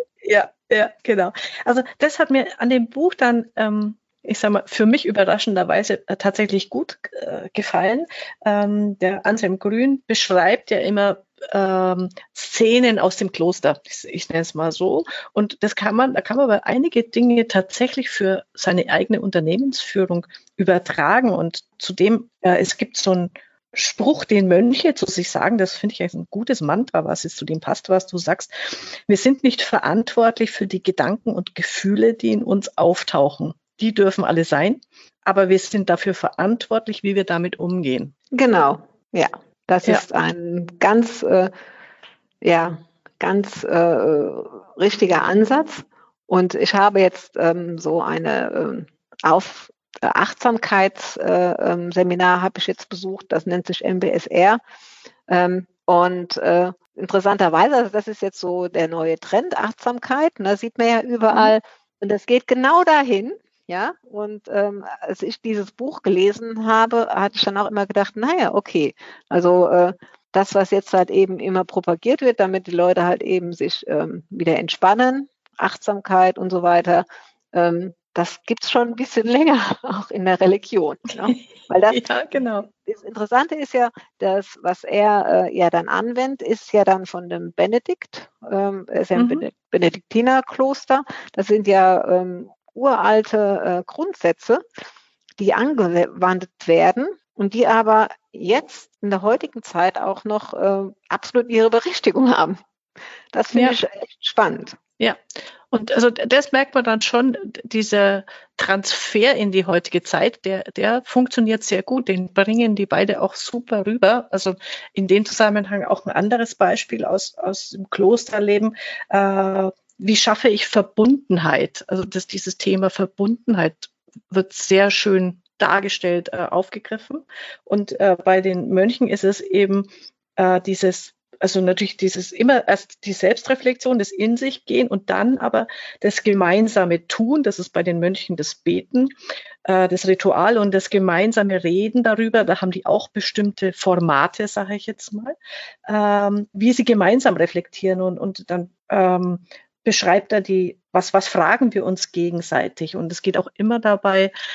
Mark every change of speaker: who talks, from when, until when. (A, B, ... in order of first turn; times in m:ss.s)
0:00.2-0:38.1 A
0:38.3-0:41.5 B
0:42.4-0:54.6 B
0:55.3-1:22.1 B
1:01.3-1:01.6 A
1:21.2-1:22.7 A
1:22.7-1:34.6 B
1:29.2-1:29.5 A
1:35.4-1:42.6 B
1:43.3-1:44.8 B
1:43.5-1:43.8 A
1:45.7-2:19.1 A
2:19.6-2:25.4 A
2:25.9-2:34.3 A